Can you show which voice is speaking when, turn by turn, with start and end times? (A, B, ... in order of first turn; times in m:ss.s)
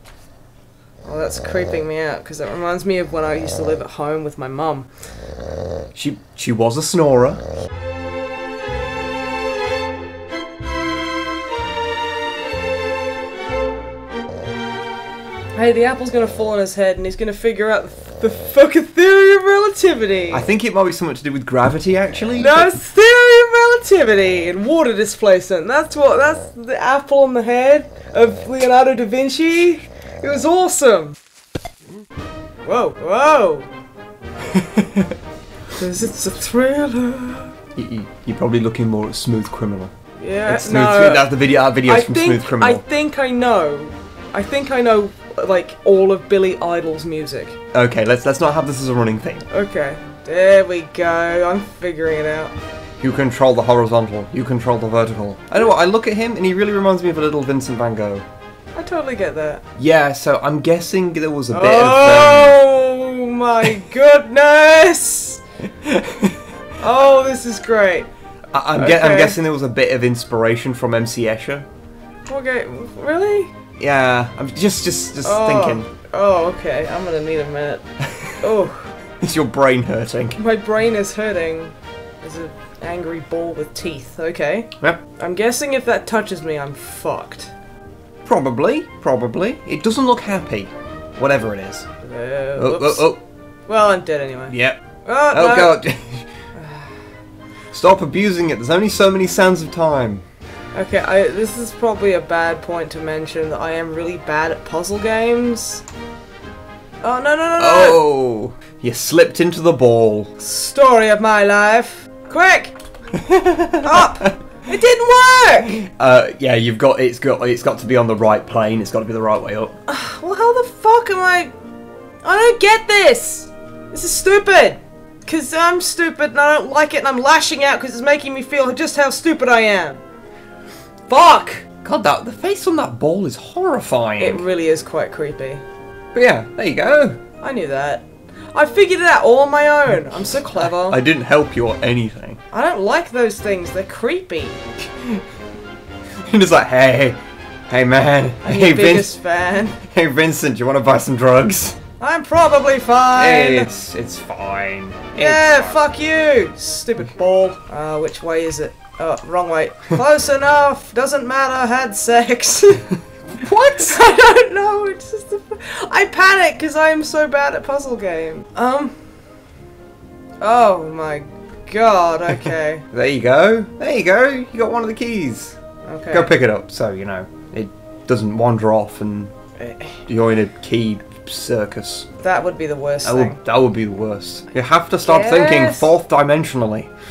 0:01.0-0:04.9 A
0:06.0-0:07.4 B
0:15.6-0:20.4 A
0:20.3-0:22.7 B
0:22.4-0:31.2 A
0:32.6-0:33.7 A
0:34.5-0:35.1 B
0:35.7-0:37.5 A
0:37.8-0:39.9 B
0:40.2-0:47.6 A
0:40.5-0:42.8 B
0:47.7-0:49.5 B
0:49.5-0:52.5 A
0:53.0-0:58.2 B
0:58.8-0:59.6 A
0:59.8-1:02.6 B
1:01.5-1:05.4 A
1:05.8-1:06.4 B
1:06.8-1:08.1 A
1:08.5-1:11.7 B
1:08.8-1:09.4 A
1:12.3-1:13.5 A
1:13.8-1:15.9 B
1:15.2-1:17.8 A
1:18.4-1:18.9 A
1:19.2-1:20.4 B
1:20.4-1:27.5 A
1:28.2-1:31.9 B
1:32.0-1:33.1 A
1:32.6-1:33.2 B
1:33.7-1:35.8 A
1:34.5-1:34.8 B
1:35.3-1:36.3 B
1:36.6-1:36.9 A
1:37.7-1:40.2 B
1:40.7-1:45.8 A
1:47.0-1:48.0 A
1:47.6-1:50.3 B
1:50.4-1:52.8 A
1:53.2-1:54.1 B
1:53.8-1:55.8 A
1:55.8-1:59.8 B
1:59.9-2:01.5 A
2:02.2-2:10.0 A
2:11.1-2:11.7 A
2:11.8-2:14.4 B
2:14.2-2:15.6 A
2:16.1-2:17.2 B
2:17.4-2:21.0 A
2:20.6-2:22.4 B
2:22.5-2:24.6 A
2:26.2-2:29.1 B
2:28.4-2:29.8 A
2:29.8-2:31.8 B
2:32.0-2:33.7 A
2:33.2-2:35.8 B
2:35.2-2:49.0 A
2:43.4-2:44.0 B
2:50.4-2:52.8 A
2:52.9-2:55.6 B
2:55.8-2:56.3 A
2:56.1-2:59.3 B
2:59.6-3:00.0 A
3:00.1-3:02.1 B
3:02.2-3:03.4 A
3:03.0-3:06.9 B
3:05.0-3:05.9 A